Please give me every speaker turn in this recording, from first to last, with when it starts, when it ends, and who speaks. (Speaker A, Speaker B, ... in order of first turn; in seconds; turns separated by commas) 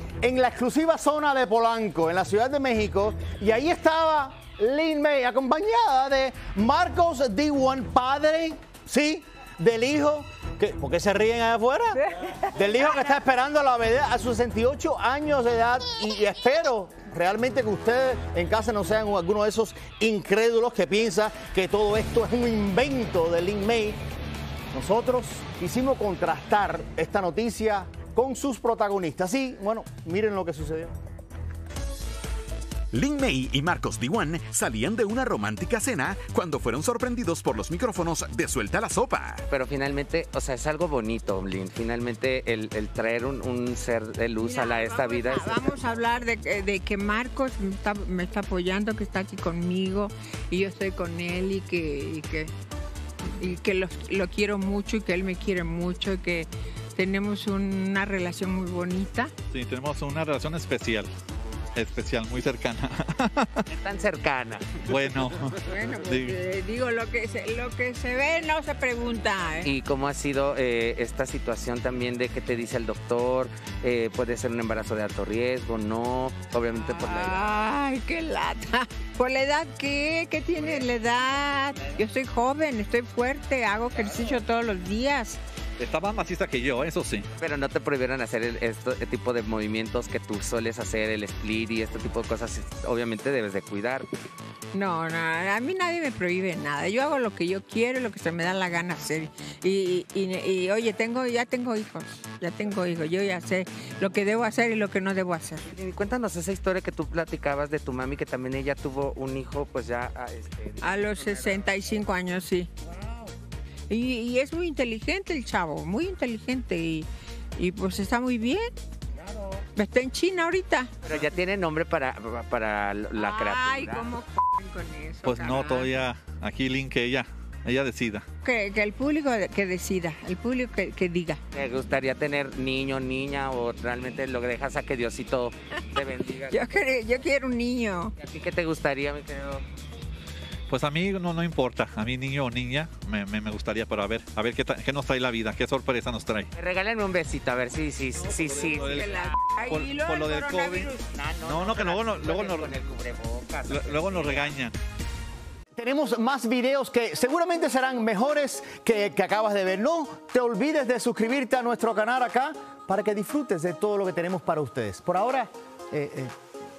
Speaker A: 0.2-24.0, Speaker A: 24.7-30.9, Speaker B: 32.9-39.4, Speaker C: 39.5-45.8, Speaker D: 44.4-52.5, Speaker D: 53.4-59.3, Speaker E: 59.5-61.1, Speaker E: 61.7-63.6, Speaker C: 63.7-64.8, Speaker E: 64.9-66.3, Speaker D: 65.6-69.7, Speaker C: 69.6-77.5, Speaker D: 76.8-85.4, Speaker E: 85.8-87.3, Speaker C: 87.4-94.1, Speaker D: 94.7-105.6, Speaker C: 105.7-111.6, Speaker D: 110.8-112.7, Speaker D: 113.9-118.7, Speaker D: 119.8-120.9, Speaker C: 121.0-124.1, Speaker D: 123.2-125.9, Speaker E: 125.2-128.2, Speaker D: 128.4-131.4, Speaker C: 131.5-136.7, Speaker D: 136.5-138.1, Speaker C: 138.2-139.6, Speaker E: 140.7-146.5, Speaker C: 146.6-149.3, Speaker E: 148.4-149.0, Speaker D: 148.8-150.9, Speaker E: 149.7-150.9, Speaker C: 150.9-154.5, Speaker E: 151.4-152.7, Speaker E: 153.7-154.7, Speaker A: 155.7-166.3